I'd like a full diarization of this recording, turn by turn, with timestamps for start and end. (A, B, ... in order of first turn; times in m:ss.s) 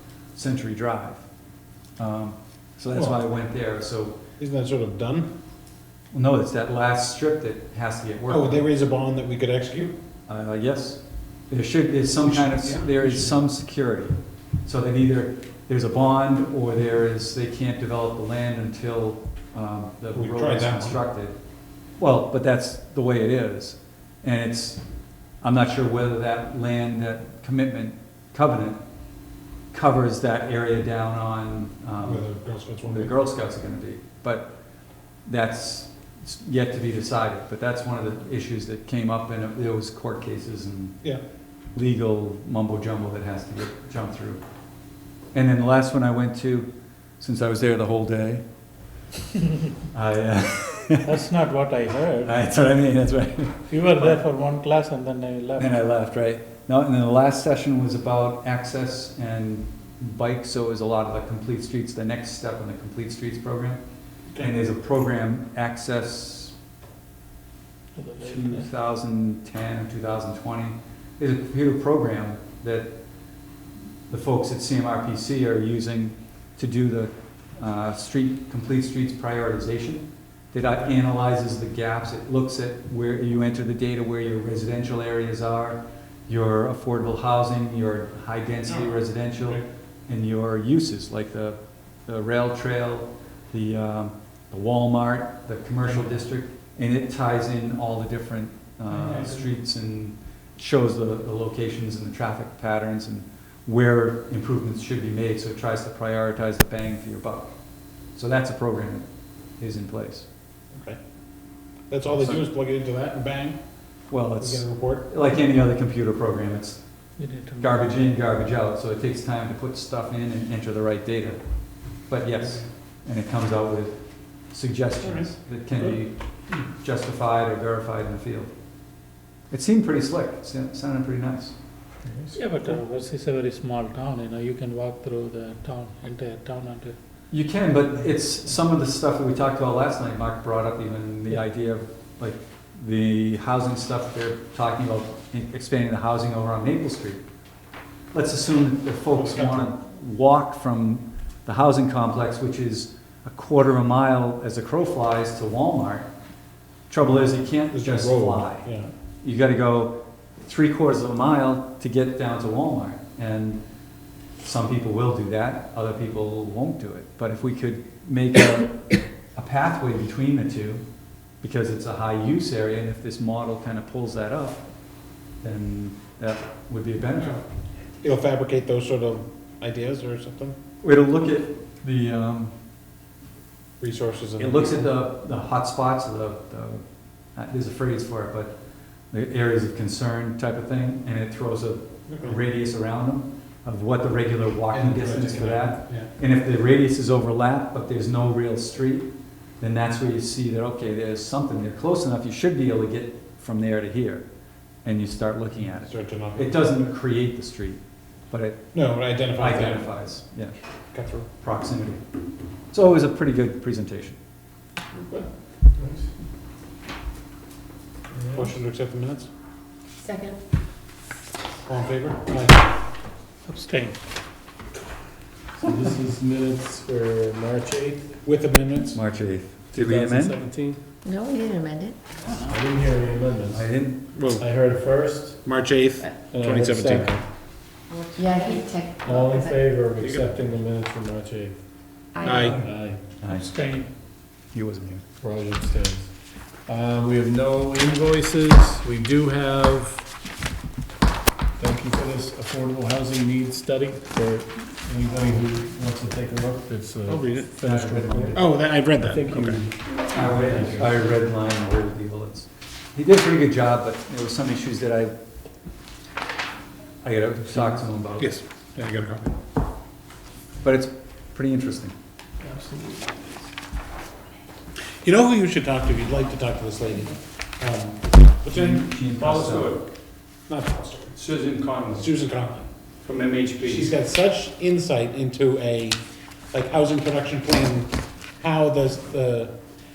0:00.3-0:01.2 A
0:02.0-0:04.2 A
0:02.9-0:03.2 B
0:04.4-0:05.3 B
0:06.1-0:08.7 A
0:08.3-0:10.0 B
0:10.3-0:21.4 A
0:12.2-0:13.4 B
0:20.1-0:21.0 B
0:22.0-0:24.8 A
0:25.4-0:28.8 A
0:29.7-0:32.3 A
0:32.0-0:33.1 B
0:32.8-0:34.6 A
0:35.3-0:41.0 A
0:41.8-0:44.4 A
0:45.3-0:48.4 A
0:49.9-0:51.1 A
0:51.0-0:52.3 C
0:52.2-0:54.2 A
0:53.7-0:55.8 C
0:55.6-1:03.8 A
1:04.4-1:06.6 A
1:08.0-1:08.7 C
1:08.2-1:13.0 A
1:14.1-1:47.5 A
1:28.7-1:29.6 B
1:48.1-1:49.1 A
1:49.6-1:50.3 A
1:50.7-1:51.0 B
1:51.9-1:53.6 B
1:52.1-1:52.4 A
1:54.1-1:56.8 A
1:54.4-1:55.1 B
1:57.2-1:57.9 C
1:57.6-2:01.4 A
2:02.1-2:04.0 A
2:04.5-2:08.5 A
2:05.0-2:05.3 B
2:09.5-2:11.5 A
2:12.1-2:12.4 D
2:12.3-2:17.0 C
2:17.3-2:27.2 A
2:28.1-2:36.1 A
2:29.1-2:29.7 B
2:36.9-2:38.7 A
2:37.2-2:38.9 B
2:39.2-2:43.6 A
2:44.4-2:50.8 A
2:51.4-2:54.6 A
2:55.4-2:57.4 A
2:58.0-3:00.6 B
3:00.8-3:02.5 A
3:03.8-3:04.9 B
3:04.4-3:06.8 A
3:07.4-3:08.6 A
3:09.1-3:24.2 A
3:12.1-3:12.4 B
3:14.7-3:16.1 B
3:24.8-3:28.8 A
3:25.8-3:26.6 B
3:28.7-3:29.9 B
3:29.3-3:30.6 A
3:30.9-3:31.3 B
3:31.4-3:32.0 A
3:32.7-3:34.2 A
3:34.9-3:35.2 B
3:38.1-3:38.5 D
3:38.3-3:39.3 B
3:40.0-3:40.4 E
3:41.7-3:42.7 B
3:43.5-3:44.0 C
3:45.6-3:48.2 D
3:48.2-3:49.0 B
3:48.9-3:50.4 A
3:49.7-3:50.8 D
3:51.0-3:52.0 E
3:52.4-3:55.6 D
3:53.5-3:54.0 A
3:54.2-3:54.4 B
3:55.4-3:57.2 B
3:56.3-3:57.2 D
3:57.9-3:59.6 E
3:59.0-4:01.7 D
4:00.0-4:00.3 B
4:02.1-4:02.5 E
4:02.2-4:02.6 B
4:02.4-4:03.5 A
4:02.5-4:03.0 D
4:03.3-4:03.9 C
4:04.5-4:05.0 A
4:05.2-4:10.1 D
4:11.6-4:20.9 D
4:17.1-4:17.5 B
4:17.6-4:18.4 A
4:18.3-4:19.6 B
4:20.1-4:25.1 A
4:27.0-4:28.4 A
4:28.2-4:29.3 B
4:30.6-4:31.9 A
4:35.0-4:38.9 B
4:38.5-4:39.8 A
4:39.1-4:39.8 F
4:40.5-4:41.2 B
4:41.3-4:42.0 F
4:41.9-4:42.7 B
4:43.0-4:43.9 F
4:43.6-4:46.0 B
4:46.5-4:49.5 B